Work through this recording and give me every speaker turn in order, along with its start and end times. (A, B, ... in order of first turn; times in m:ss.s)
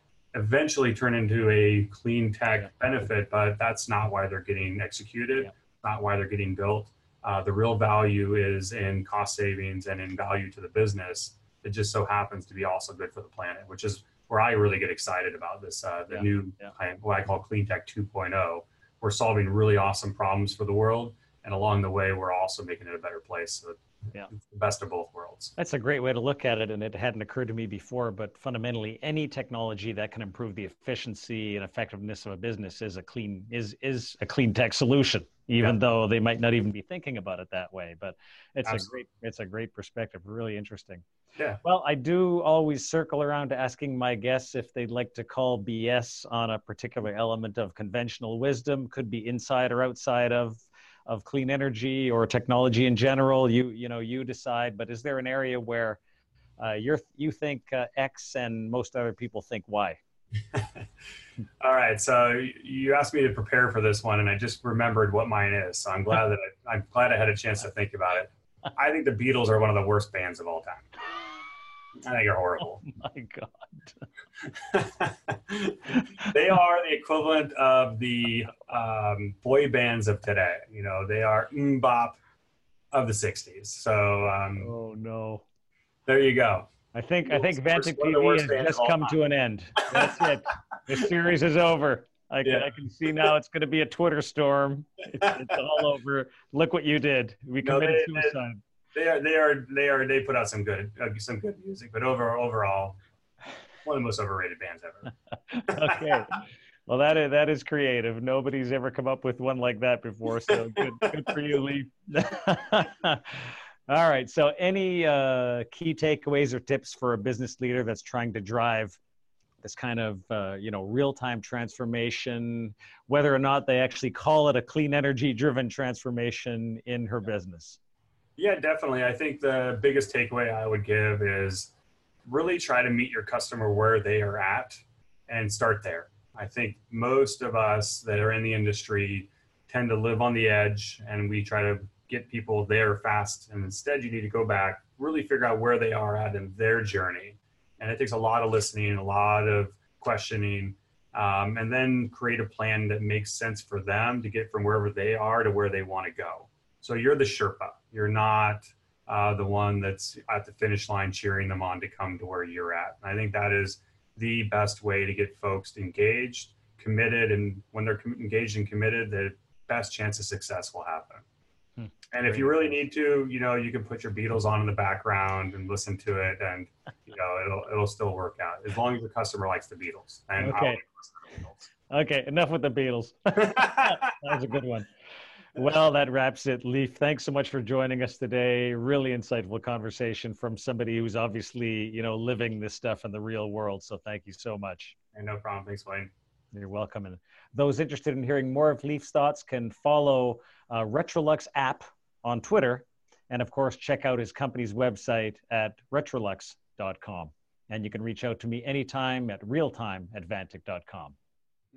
0:00.3-0:25.6 A
0:16.1-0:16.7 B
0:25.6-0:41.0 B
0:38.6-0:38.9 A
0:41.4-0:41.6 A
0:41.6-0:56.0 B
0:56.6-1:00.0 B
1:01.6-1:10.9 A
1:12.0-1:12.8 A
1:12.9-1:14.0 B
1:14.4-1:22.2 A
1:22.9-1:24.7 A
1:24.6-1:25.4 B
1:26.1-1:26.7 A
1:26.9-1:38.6 B
1:27.3-1:29.1 A
1:29.9-1:30.2 A
1:32.4-1:32.7 A
1:35.2-1:35.5 A
1:37.6-1:38.4 A
1:38.9-1:43.0 A
1:43.8-1:45.1 A
1:45.5-1:59.0 B
1:45.7-1:46.2 A
1:59.6-2:07.8 B
2:08.4-2:11.7 A
2:12.3-2:51.2 A
2:51.8-2:52.8 B
2:52.1-3:01.7 A
3:00.4-3:00.8 B
3:01.9-3:04.9 B
3:03.4-3:04.1 A
3:05.6-3:15.0 B
3:15.1-3:16.1 A
3:16.5-3:31.2 B